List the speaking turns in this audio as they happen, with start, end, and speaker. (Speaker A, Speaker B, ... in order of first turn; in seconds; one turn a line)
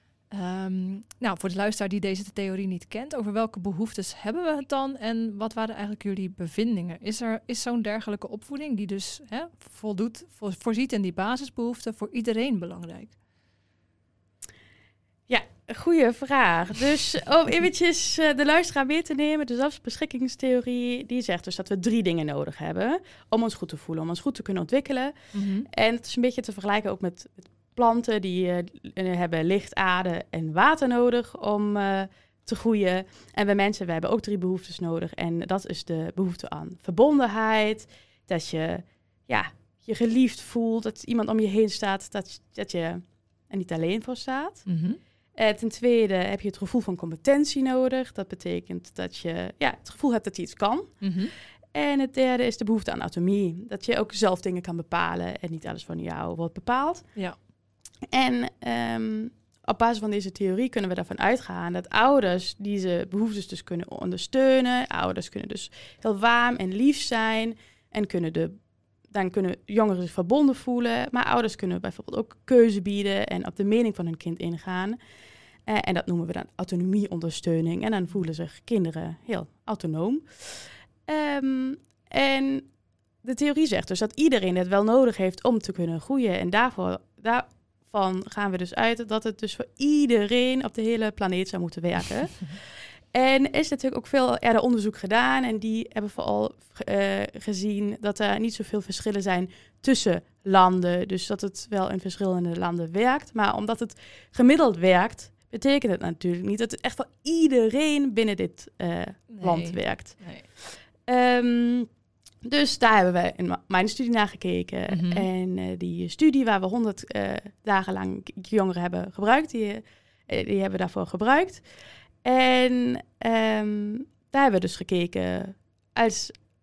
Speaker A: 0.3-13.1
Speaker B: 15.3-44.7
Speaker A: 25.3-25.7
Speaker A: 44.6-45.0
Speaker B: 45.4-51.1
Speaker A: 51.0-51.3
Speaker B: 51.7-57.0
Speaker B: 58.1-75.0
Speaker B: 75.7-82.7
Speaker B: 83.2-111.9
Speaker A: 109.3-110.5
Speaker B: 112.4-121.7
Speaker A: 114.9-115.3
Speaker B: 122.2-126.4